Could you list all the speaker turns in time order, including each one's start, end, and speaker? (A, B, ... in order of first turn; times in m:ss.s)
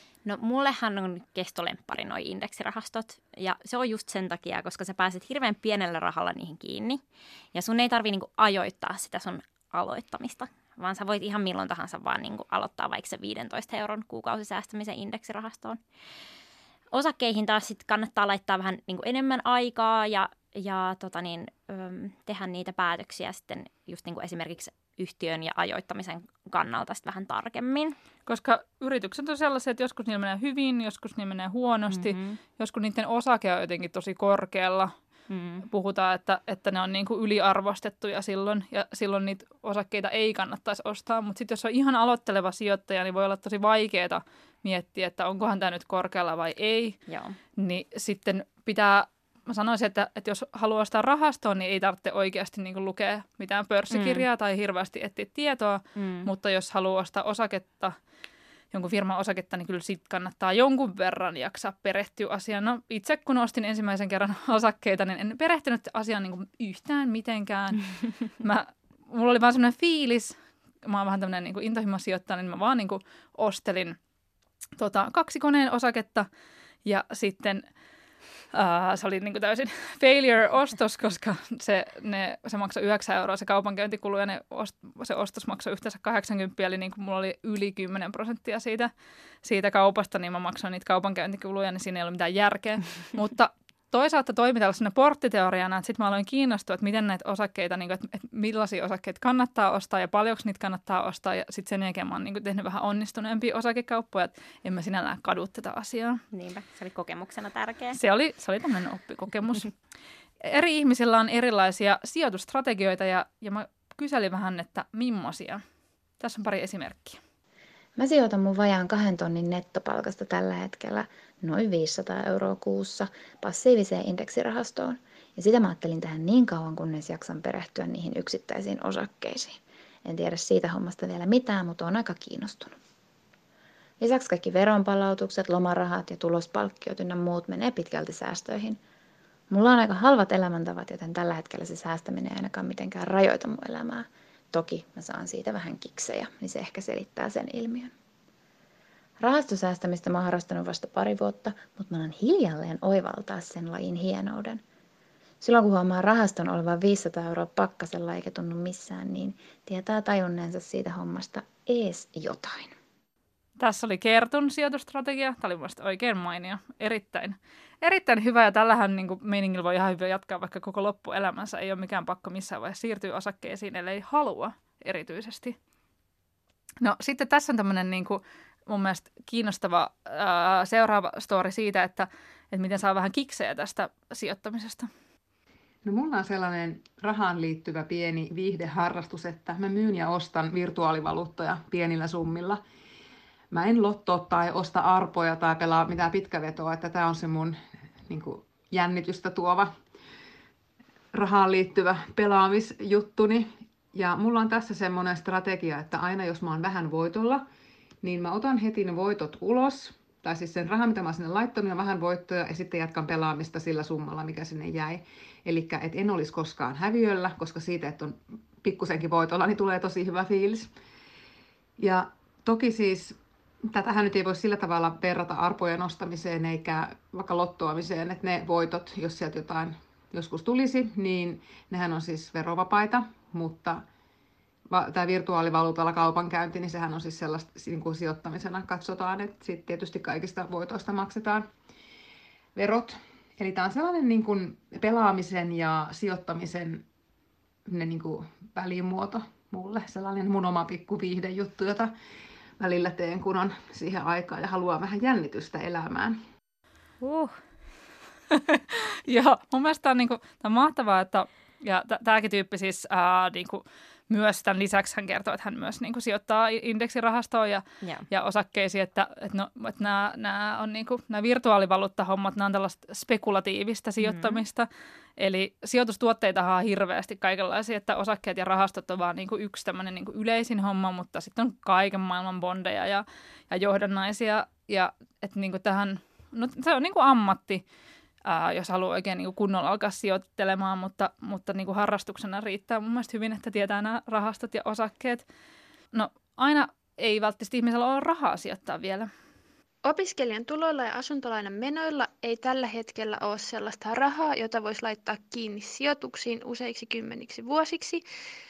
0:00.2-0:07.0 A
0:07.5-0:15.8 A
0:16.9-0:28.0 A
0:28.3-0:34.9 B
0:31.9-0:32.4 A
0:35.3-0:35.6 A
0:35.7-0:47.0 B
0:47.1-0:47.4 A
0:47.6-0:58.0 B
0:53.9-0:54.2 A
0:56.0-0:56.3 A
0:58.7-1:07.8 B
1:08.4-1:14.0 B
1:14.8-1:16.3 B
1:16.8-1:17.6 B
1:18.5-1:28.9 B
1:29.4-1:46.2 B
1:46.3-1:48.0 A
1:47.9-1:49.7 B
1:50.4-1:55.6 B
1:56.2-1:57.2 B
1:58.0-2:12.7 C
2:14.0-2:18.8 C
2:19.5-2:27.9 C
2:29.2-2:34.6 C
2:35.4-2:42.7 C
2:43.6-2:55.6 B
2:56.8-3:04.9 B
3:05.8-3:12.6 D
3:13.5-3:17.6 D
3:18.1-3:19.7 D
3:21.1-3:27.4 D
3:28.0-3:40.7 D
3:41.8-3:53.8 D
3:54.7-4:01.5 D
4:02.6-4:06.8 D
4:07.7-4:11.9 D
4:12.6-4:16.2 D
4:17.0-4:17.4 A
4:18.3-4:47.6 B
4:34.0-4:34.4 A
4:48.2-4:55.2 B
4:55.9-4:59.1 B
4:59.8-5:08.0 E